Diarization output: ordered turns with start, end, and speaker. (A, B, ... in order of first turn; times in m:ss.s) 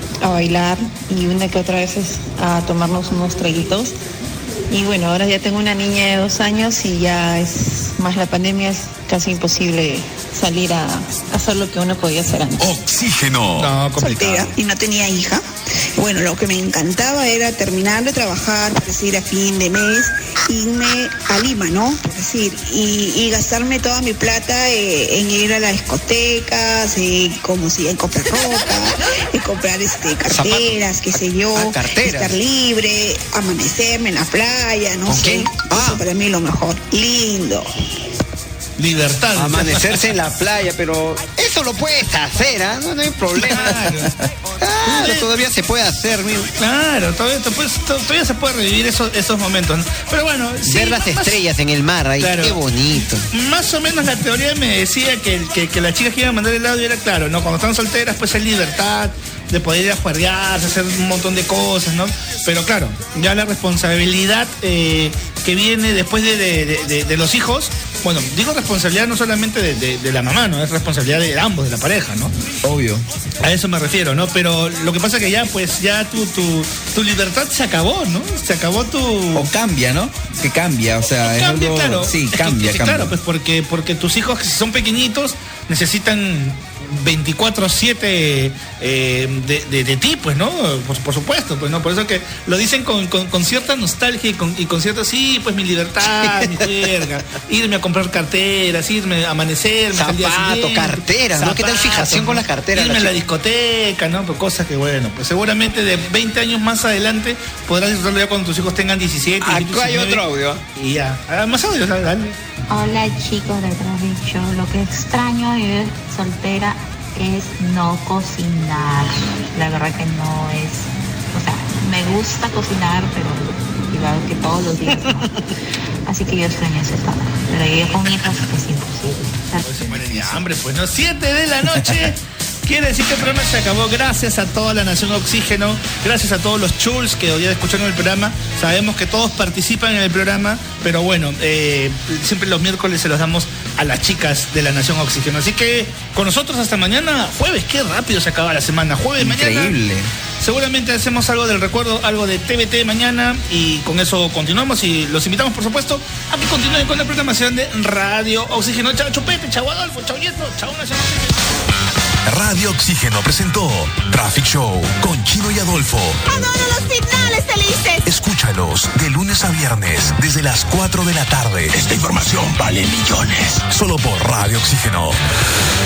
0:00.2-0:03.9 A
0:04.7-0:12.6 A
0:12.6-0:13.7 B
0:13.6-0:14.5 C
0:14.0-0:15.4 D
0:16.0-0:37.7 D
0:30.3-0:30.8 E
0:31.5-0:32.3 E
0:35.0-0:36.0 E
0:38.8-0:40.0 C
0:39.3-0:43.8 E
0:43.3-0:44.1 C
0:44.6-0:46.5 E
0:44.8-0:45.3 C
0:46.6-0:51.4 C
0:50.6-0:53.3 E
0:52.2-1:12.3 C
1:12.6-1:13.0 F
1:13.4-1:19.5 C
1:19.3-1:23.1 F
1:21.2-1:50.2 C
1:39.9-1:43.2 E
1:49.4-1:50.6 E
1:50.8-1:52.3 C
1:52.7-2:00.8 G
2:01.3-2:05.1 G
2:06.1-2:09.3 G
2:09.6-2:29.8 C
2:29.2-2:30.1 F
2:30.4-2:41.4 C
2:42.3-2:46.4 B
2:46.5-2:48.0 G
2:48.0-2:55.2 B